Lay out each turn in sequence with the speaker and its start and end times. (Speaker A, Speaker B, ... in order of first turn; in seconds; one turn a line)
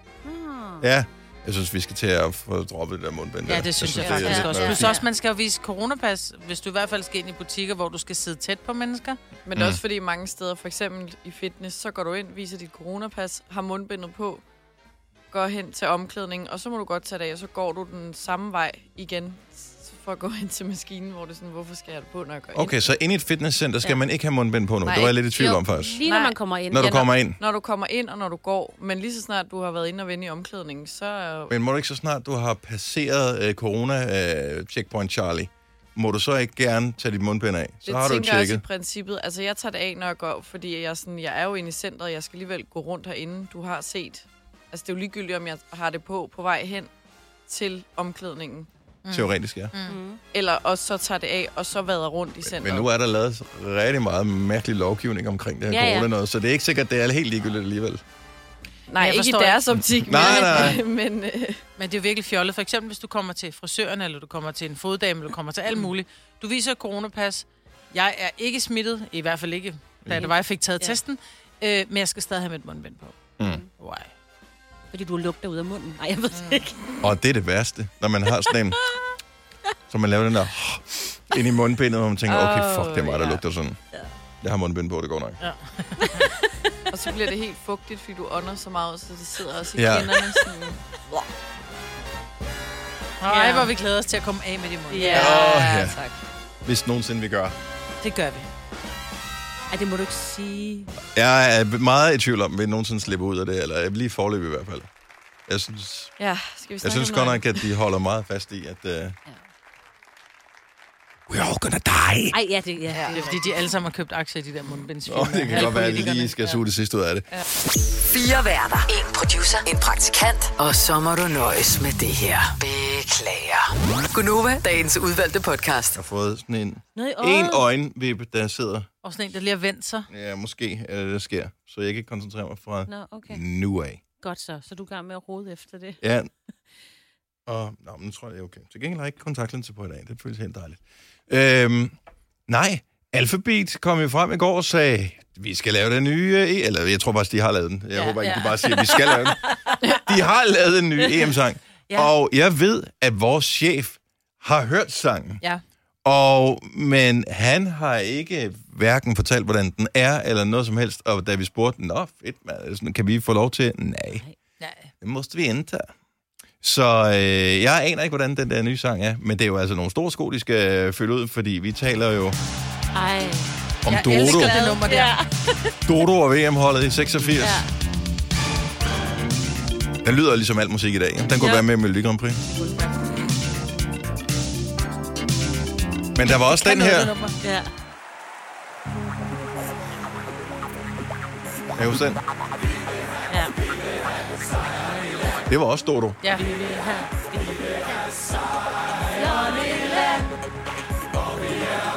Speaker A: 0.2-0.8
Speaker B: 0.8-4.9
Speaker C: 3.5-9.2
Speaker D: 4.0-4.8
Speaker A: 4.2-5.0
Speaker D: 9.4-14.4
Speaker B: 9.5-9.8
Speaker D: 15.3-22.8
Speaker B: 22.5-26.0
Speaker D: 24.8-25.5
Speaker A: 25.4-27.1
Speaker B: 26.7-27.4
Speaker D: 27.4-31.5
Speaker B: 31.5-38.6
Speaker D: 37.8-46.9
Speaker D: 47.5-48.7
Speaker C: 49.0-50.0
Speaker B: 49.1-49.7
Speaker A: 49.9-50.2
Speaker D: 50.3-52.9
Speaker B: 52.4-58.0
Speaker A: 55.7-56.1
Speaker D: 58.9-61.6
Speaker C: 59.0-59.6
Speaker B: 59.9-60.8
Speaker C: 60.3-60.6
Speaker C: 61.8-74.1
Speaker A: 70.1-70.9
Speaker A: 74.9-76.9
Speaker C: 76.3-76.6
Speaker B: 77.0-78.8
Speaker B: 79.9-83.8
Speaker D: 82.3-83.4
Speaker B: 84.4-85.4
Speaker C: 85.4-86.3
Speaker D: 86.9-91.2
Speaker B: 89.8-90.5
Speaker C: 93.2-95.5
Speaker A: 93.3-93.7
Speaker A: 94.9-95.5
Speaker D: 95.0-96.2
Speaker B: 95.1-96.0
Speaker B: 96.6-97.5
Speaker C: 98.0-98.5
Speaker A: 99.7-100.9
Speaker B: 101.1-104.9
Speaker B: 105.5-106.1
Speaker D: 106.2-107.6
Speaker B: 106.8-109.2
Speaker B: 111.3-112.3
Speaker A: 112.3-113.5
Speaker D: 112.9-113.4
Speaker C: 113.1-116.3
Speaker B: 115.0-117.3
Speaker A: 115.6-115.9
Speaker E: 118.1-126.0
Speaker B: 125.9-128.9
Speaker A: 126.9-127.6
Speaker C: 129.0-130.1
Speaker B: 130.1-134.0
Speaker A: 132.9-133.4
Speaker A: 134.2-136.0
Speaker B: 136.0-136.3
Speaker B: 137.5-141.9
Speaker B: 142.5-155.4
Speaker C: 147.9-148.8
Speaker B: 156.0-164.2
Speaker C: 164.6-164.9
Speaker B: 165.0-165.9
Speaker B: 166.6-172.3
Speaker A: 172.9-173.5
Speaker B: 173.8-174.7
Speaker C: 173.8-175.2
Speaker A: 174.0-175.7
Speaker B: 175.8-177.6
Speaker A: 177.4-177.7
Speaker B: 180.0-182.4
Speaker A: 181.4-181.7
Speaker A: 182.5-183.0
Speaker B: 186.1-187.1
Speaker C: 186.4-187.4
Speaker A: 187.4-187.7
Speaker B: 191.8-192.2
Speaker B: 195.5-196.2
Speaker A: 196.4-197.8
Speaker A: 199.2-200.3